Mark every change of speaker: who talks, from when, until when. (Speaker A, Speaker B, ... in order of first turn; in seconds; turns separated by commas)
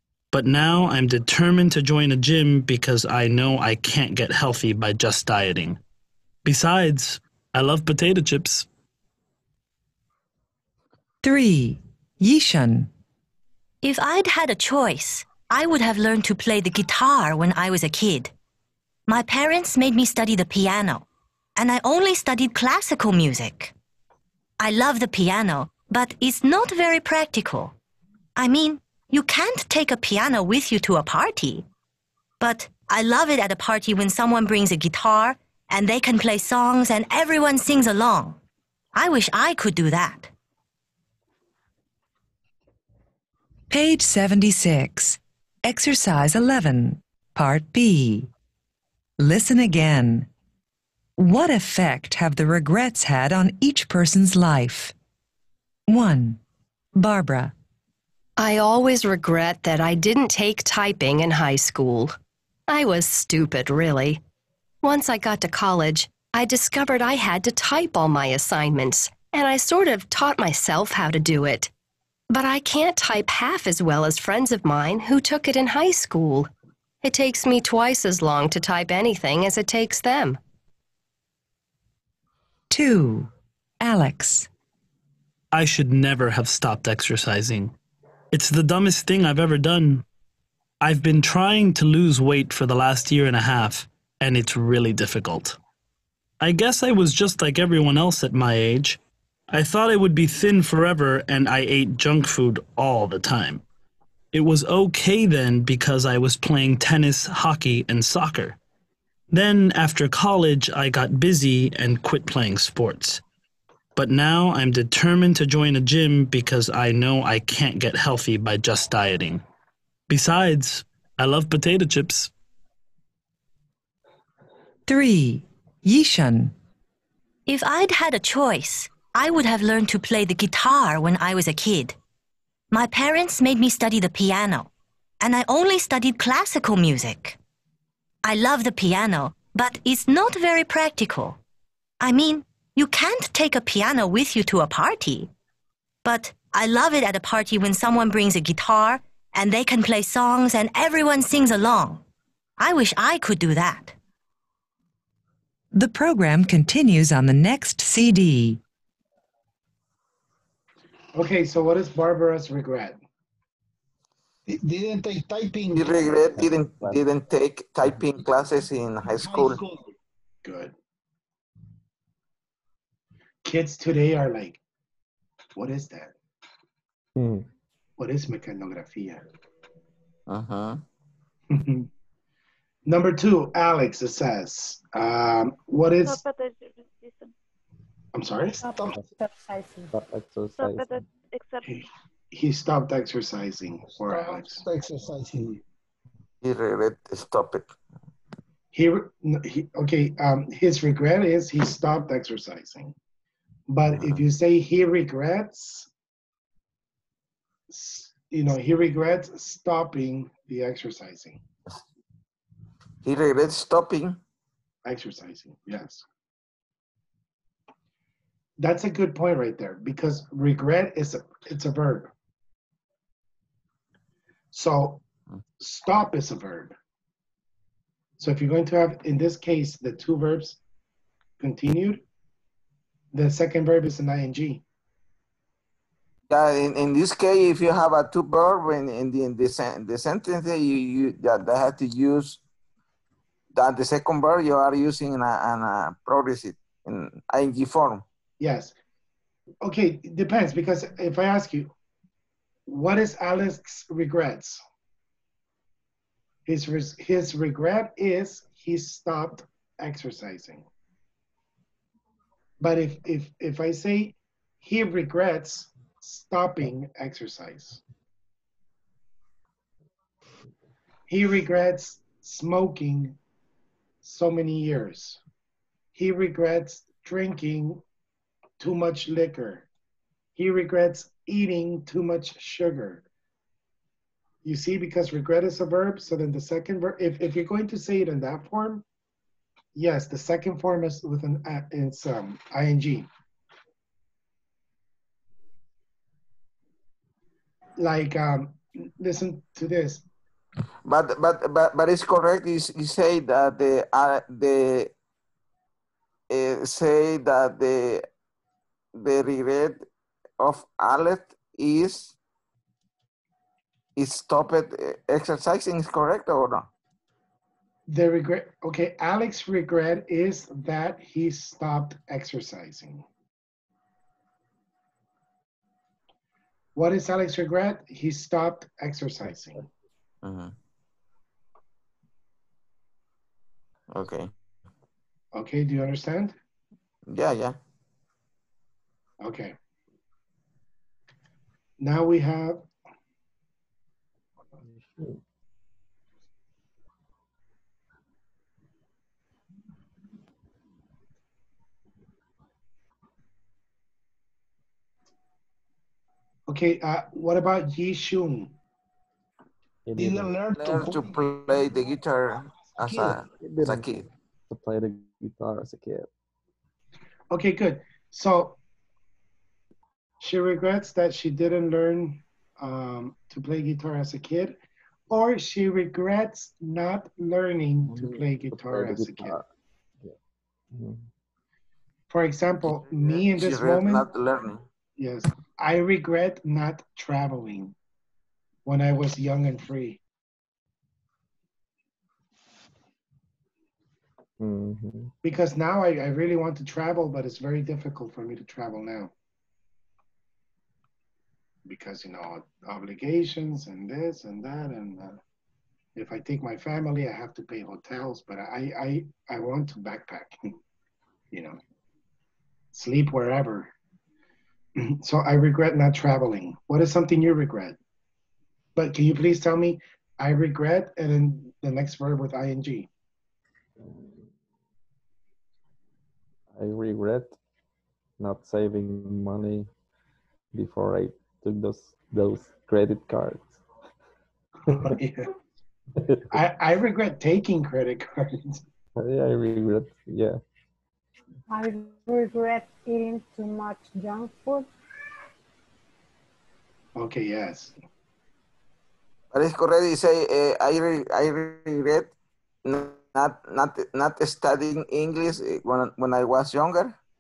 Speaker A: 0.3-5.8, Speaker A: 6.5-8.7, Speaker B: 11.2-12.9, Speaker C: 13.8-18.3, Speaker C: 19.1-21.1, Speaker C: 21.6-23.7, Speaker C: 24.6-27.7, Speaker C: 28.4-31.7, Speaker C: 32.4-38.4, Speaker C: 38.9-40.3, Speaker B: 43.7-48.3, Speaker B: 49.2-50.3, Speaker B: 51.2-54.9, Speaker B: 55.9-56.4, Speaker B: 57.0-57.5, Speaker D: 58.4-62.1, Speaker D: 62.7-64.2, Speaker D: 64.8-71.7, Speaker D: 72.3-76.5, Speaker D: 77.0-80.4, Speaker B: 82.7-84.5, Speaker A: 85.5-87.7, Speaker A: 88.3-90.0, Speaker A: 90.8-95.6, Speaker A: 96.4-99.0, Speaker A: 99.5-103.6, Speaker A: 104.3-108.6, Speaker A: 109.3-113.2, Speaker A: 114.0-119.4, Speaker A: 120.1-122.3, Speaker B: 124.9-126.5, Speaker C: 127.5-132.0, Speaker C: 132.7-134.7, Speaker C: 135.2-137.4, Speaker C: 138.2-141.4, Speaker C: 142.0-145.3, Speaker C: 146.1-152.0, Speaker C: 152.6-153.9, Speaker B: 155.7-158.6, Speaker E: 161.2-163.0, Speaker F: 164.5-166.4, Speaker G: 165.7-169.6, Speaker H: 166.3-167.0, Speaker F: 169.2-169.9, Speaker E: 170.4-170.8, Speaker E: 173.4-174.6, Speaker E: 175.6-176.2, Speaker H: 177.2-177.5, Speaker E: 178.0-179.2, Speaker G: 180.3-180.8, Speaker E: 181.5-181.9, Speaker E: 182.9-186.2, Speaker I: 186.0-187.3, Speaker E: 188.1-188.6, Speaker J: 188.6-189.9, Speaker H: 189.9-191.0, Speaker I: 190.6-191.8, Speaker E: 191.7-194.6, Speaker F: 194.1-195.6, Speaker G: 196.4-197.7, Speaker E: 198.7-202.9, Speaker E: 203.7-205.9, Speaker E: 207.7-211.4, Speaker G: 213.0-214.2, Speaker E: 214.8-216.1, Speaker E: 218.6-222.1, Speaker E: 224.5-225.0, Speaker E: 225.6-226.8, Speaker E: 228.2-230.6, Speaker E: 231.4-232.0, Speaker E: 233.1-234.6, Speaker G: 236.3-242.4, Speaker G: 243.6-248.0, Speaker E: 248.4-248.7, Speaker E: 249.6-251.7, Speaker E: 252.7-254.6, Speaker E: 256.5-260.7, Speaker E: 262.6-267.8, Speaker E: 271.1-273.2, Speaker E: 274.0-275.2, Speaker E: 275.9-277.8, Speaker E: 278.6-279.7, Speaker E: 280.4-283.0, Speaker E: 284.4-288.8, Speaker E: 289.8-293.1, Speaker E: 297.8-300.1, Speaker G: 300.9-304.9, Speaker G: 306.3-308.1, Speaker G: 309.0-309.8, Speaker G: 310.4-312.2, Speaker G: 314.0-316.7, Speaker E: 317.9-323.1, Speaker E: 326.8-329.6, Speaker G: 330.2-330.5, Speaker G: 333.9-334.3, Speaker E: 335.3-336.4, Speaker G: 337.1-337.6, Speaker E: 339.2-339.6, Speaker E: 341.8-342.6, Speaker H: 344.6-345.2, Speaker E: 356.5-358.6, Speaker H: 359.9-360.3, Speaker F: 360.0-361.2, Speaker G: 360.5-364.1, Speaker F: 362.8-363.2, Speaker H: 363.4-363.9, Speaker H: 364.5-366.1, Speaker E: 367.3-368.6, Speaker E: 370.2-374.6, Speaker E: 375.1-379.4, Speaker H: 377.9-379.5, Speaker H: 380.7-381.0, Speaker E: 382.1-384.1, Speaker G: 382.6-384.6, Speaker E: 385.0-387.7, Speaker E: 388.7-390.0, Speaker H: 394.4-395.1, Speaker E: 395.2-399.1, Speaker E: 401.7-405.2, Speaker E: 406.0-410.6, Speaker E: 411.3-411.6, Speaker E: 412.7-413.7, Speaker E: 414.8-417.8, Speaker E: 418.8-422.9, Speaker H: 423.8-424.3, Speaker H: 426.6-427.4, Speaker H: 428.2-429.7, Speaker H: 430.5-433.6, Speaker H: 434.7-434.9, Speaker E: 434.7-435.3, Speaker H: 436.0-436.3, Speaker E: 436.3-438.6, Speaker H: 439.0-440.4, Speaker J: 441.5-444.7, Speaker E: 447.0-447.8, Speaker G: 449.3-452.1, Speaker G: 452.6-457.0